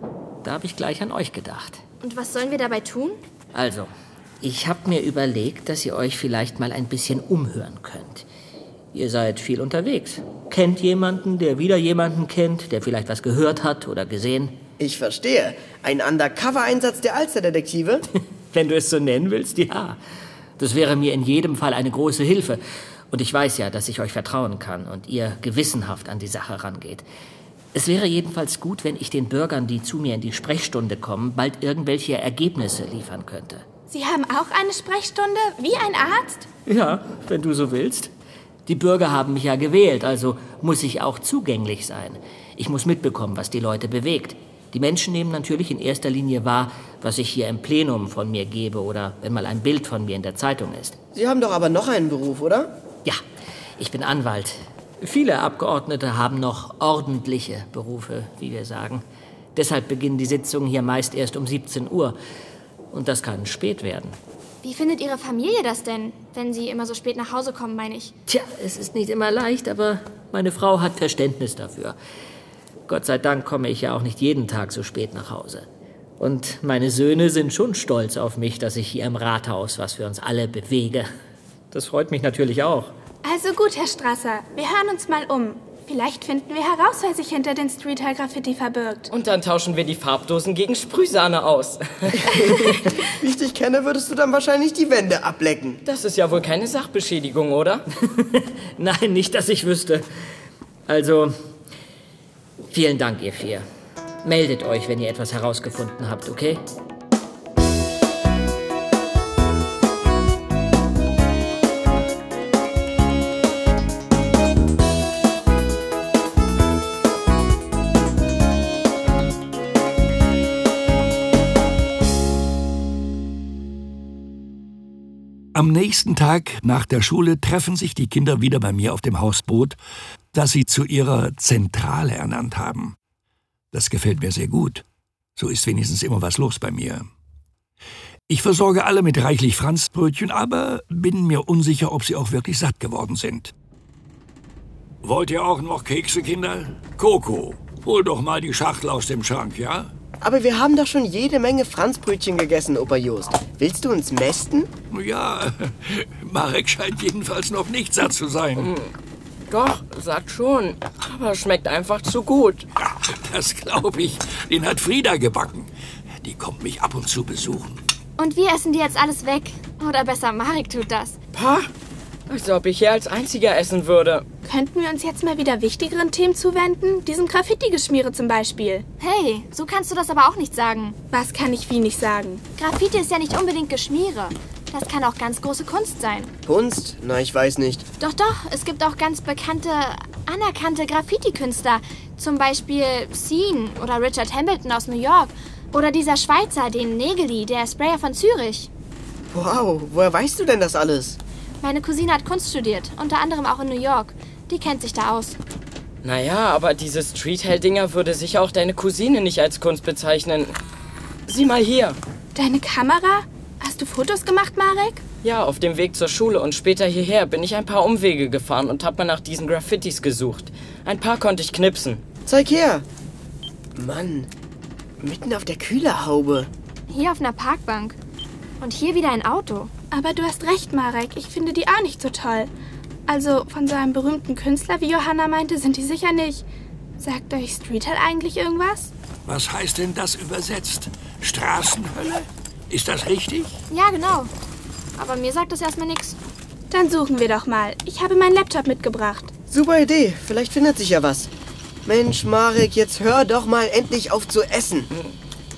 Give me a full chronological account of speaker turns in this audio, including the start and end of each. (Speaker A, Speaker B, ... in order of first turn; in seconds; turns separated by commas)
Speaker A: 0.4-1.8, Speaker B: 2.0-3.2, Speaker A: 3.5-8.3, Speaker A: 8.9-14.6, Speaker C: 14.8-18.1, Speaker A: 18.5-20.0, Speaker A: 20.6-27.1, Speaker A: 27.7-33.6, Speaker D: 33.9-36.5, Speaker A: 36.7-38.1, Speaker A: 38.7-51.0, Speaker C: 51.1-52.7, Speaker A: 53.8-59.0, Speaker A: 59.5-62.2, Speaker A: 62.9-64.2, Speaker B: 64.6-68.1, Speaker A: 68.3-72.0, Speaker A: 72.9-75.7, Speaker A: 76.2-81.1, Speaker A: 81.7-82.9, Speaker D: 83.2-89.1, Speaker E: 89.1-92.3, Speaker C: 92.2-95.8, Speaker E: 95.8-97.8, Speaker A: 98.0-100.1, Speaker A: 100.9-101.4, Speaker A: 102.7-103.7, Speaker A: 104.2-106.6, Speaker F: 125.5-129.8, Speaker F: 130.3-133.0, Speaker F: 133.7-134.8, Speaker F: 135.4-137.1, Speaker F: 138.3-143.5, Speaker F: 145.0-149.9, Speaker C: 150.2-154.7, Speaker F: 154.9-158.7, Speaker E: 158.6-158.9, Speaker E: 159.5-162.7, Speaker F: 162.8-165.7, Speaker F: 166.2-167.8, Speaker B: 168.2-171.2, Speaker E: 171.3-171.7, Speaker E: 172.3-174.3, Speaker D: 174.4-178.8, Speaker B: 179.0-181.0, Speaker D: 181.1-182.5, Speaker B: 182.6-186.3, Speaker C: 186.5-187.8, Speaker B: 188.0-198.7, Speaker C: 199.3-201.2, Speaker B: 201.6-205.4, Speaker E: 206.0-210.6, Speaker E: 211.3-212.0, Speaker D: 212.3-215.0, Speaker E: 215.2-222.0, Speaker C: 222.3-222.8, Speaker C: 223.8-224.3, Speaker C: 225.0-226.5, Speaker B: 226.9-228.0, Speaker B: 228.6-229.7, Speaker D: 229.9-232.5, Speaker D: 233.1-236.4, Speaker D: 237.0-238.9, Speaker F: 239.3-243.6, Speaker B: 243.7-244.3, Speaker B: 245.0-246.2, Speaker D: 246.7-249.3, Speaker C: 249.5-251.3, Speaker C: 251.9-254.9, Speaker E: 254.9-255.2